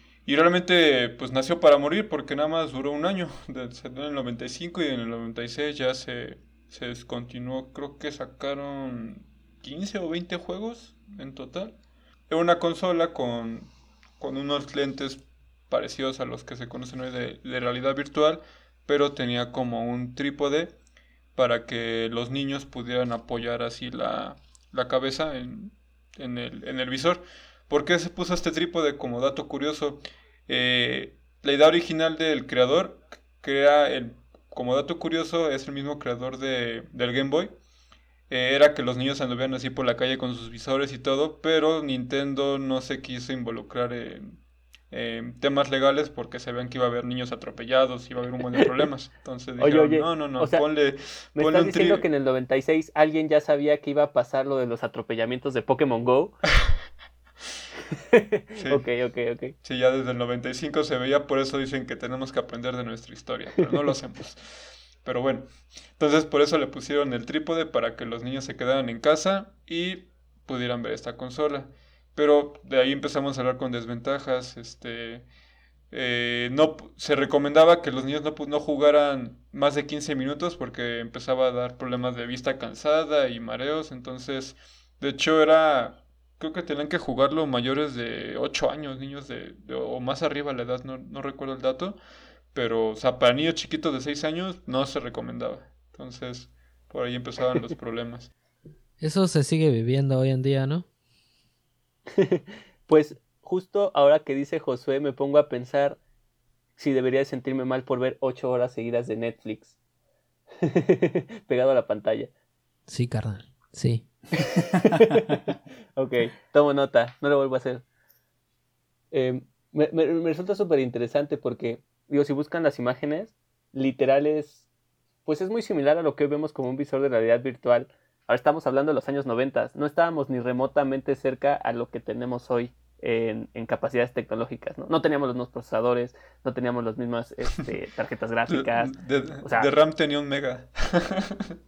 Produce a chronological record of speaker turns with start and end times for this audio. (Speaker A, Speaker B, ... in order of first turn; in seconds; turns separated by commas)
Speaker A: 0.3-11.8, Speaker A: 12.3-20.8, Speaker A: 21.4-37.5, Speaker A: 38.3-44.4, Speaker A: 44.9-52.0, Speaker B: 49.6-50.6, Speaker B: 51.4-56.4, Speaker B: 58.1-59.5, Speaker A: 58.6-58.9, Speaker A: 59.6-75.3, Speaker A: 75.9-92.0, Speaker A: 92.5-98.3, Speaker C: 99.0-100.9, Speaker B: 102.1-106.0, Speaker B: 106.8-109.7, Speaker B: 110.6-112.3, Speaker C: 112.9-114.1, Speaker B: 114.4-117.8, Speaker B: 119.1-124.6, Speaker B: 125.3-139.7, Speaker A: 138.5-141.5